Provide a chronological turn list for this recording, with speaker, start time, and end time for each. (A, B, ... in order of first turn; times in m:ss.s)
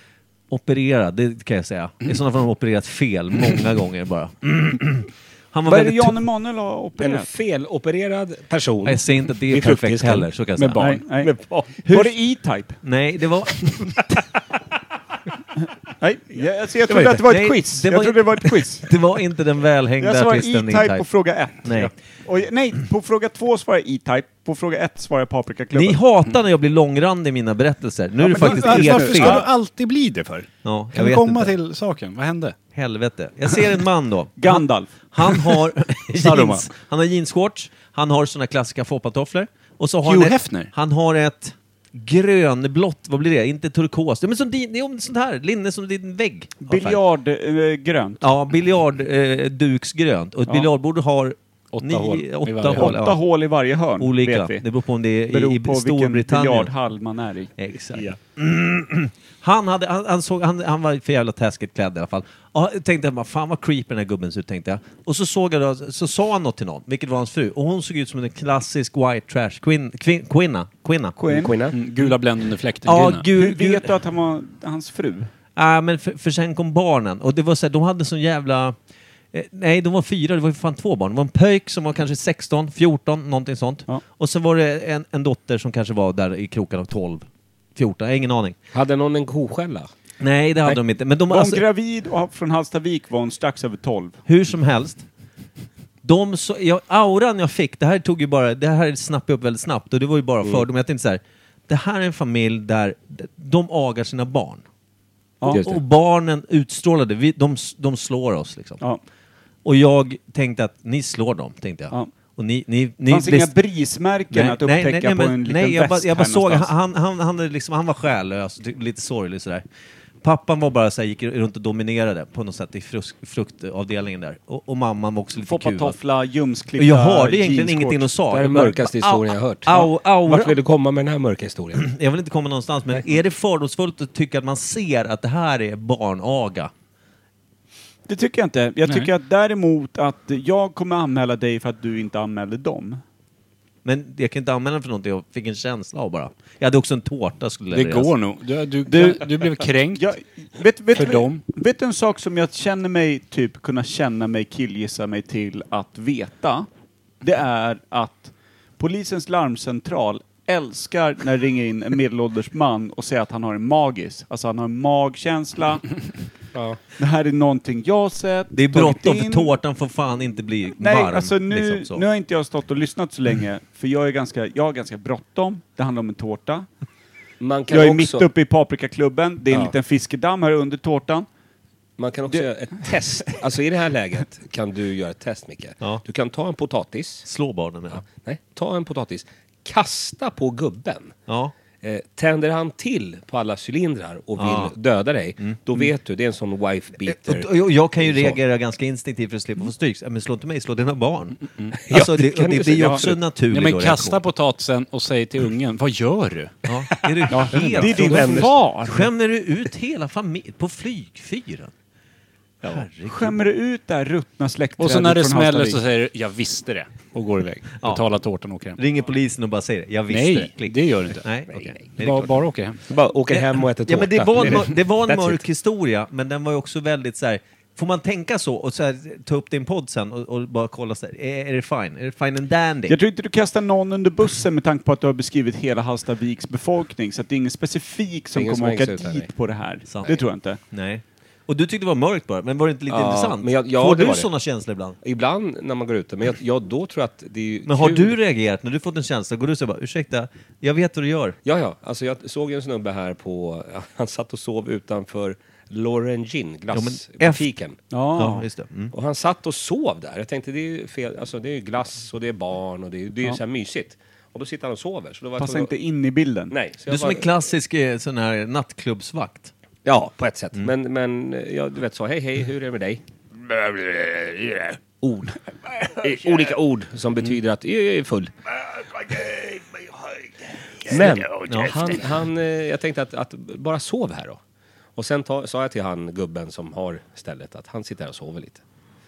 0:00.5-0:06.2 A
0:05.7-0:07.3 B
0:07.0-0:10.4 C
0:08.8-0:11.0 A
0:10.6-0:11.0 D
0:10.8-0:11.3 B
0:11.0-0:11.8 C
0:11.8-0:12.2 A
0:11.9-0:12.8 B
0:12.8-0:14.2 A
0:16.0-0:18.9 B
0:16.9-0:17.2 C
0:17.3-0:21.1 A
0:20.0-0:26.0 B
0:21.6-0:21.9 A
0:25.7-0:29.5 A
0:28.2-0:29.5 B
0:28.3-0:32.6 D
0:30.6-0:31.5 A
0:32.7-0:47.0 A
0:34.4-0:35.3 B
0:36.1-0:36.7 D
0:40.0-0:40.7 D
0:46.6-0:48.2 B
0:48.2-0:53.2 A
0:51.7-0:53.0 D
0:52.7-0:54.6 B
0:54.0-0:56.7 A
0:55.3-0:57.5 B
0:57.6-1:11.2 A
1:11.2-1:11.6 B
1:11.3-1:11.8 C
1:11.7-1:13.2 D
1:12.8-1:13.9 A
1:13.3-1:15.3 B
1:15.6-1:18.8 A
1:19.3-1:28.6 A
1:28.7-1:29.9 C
1:30.2-1:31.6 A
1:31.3-1:34.2 B
1:34.3-1:35.0 A
1:36.0-1:44.6 A
1:45.5-1:45.8 C
1:45.5-1:48.8 A
1:49.6-1:53.5 A
1:53.1-1:56.7 B
1:54.3-1:59.6 A
2:00.2-2:06.0 A
2:05.4-2:08.1 B
2:06.8-2:10.6 A
2:08.3-2:11.9 C
2:11.8-2:16.7 A
2:18.1-2:23.0 B
2:23.8-2:28.1 A
2:27.7-2:30.1 D
2:28.9-2:29.4 B
2:29.9-2:36.7 B
2:31.0-2:31.4 D
2:37.2-2:45.8 B
2:46.5-2:46.8 C
2:47.0-2:49.5 B
2:48.6-2:52.0 A
2:50.8-2:56.7 B
2:57.4-2:58.3 C
2:57.7-3:01.3 B
3:02.0-3:07.3 C
3:02.3-3:03.4 B
3:07.2-3:08.0 A
3:07.9-3:11.2 C
3:11.3-3:11.5 A
3:11.8-3:18.4 C
3:14.4-3:14.7 A
3:15.4-3:15.8 A
3:17.0-3:24.2 A
3:21.7-3:23.2 C
3:23.5-3:26.7 D
3:26.7-3:31.7 A
3:27.3-3:29.1 B
3:27.5-3:28.3 D
3:27.7-3:28.5 C
3:32.6-3:33.4 A
3:33.1-3:35.8 B
3:34.8-3:38.8 D
3:38.8-3:42.4 A
3:40.1-3:41.3 D
3:41.5-3:41.8 C
3:42.0-3:42.8 D
3:42.9-3:45.4 C
3:43.3-3:53.0 A
3:52.9-4:00.6 B
3:58.3-3:59.3 C
3:59.9-4:00.2 A
4:00.7-4:05.0 A
4:02.9-4:04.3 C
4:05.0-4:08.2 C
4:07.7-4:11.4 A
4:11.4-4:17.8 C
4:16.7-4:17.5 A
4:17.9-4:18.5 B
4:18.2-4:18.9 A
4:18.9-4:25.7 C
4:25.4-4:26.5 B
4:26.5-4:27.3 C
4:26.9-4:29.5 A
4:29.8-4:40.2 C
4:40.8-4:44.4 C
4:41.5-4:42.0 A
4:45.0-4:48.6 C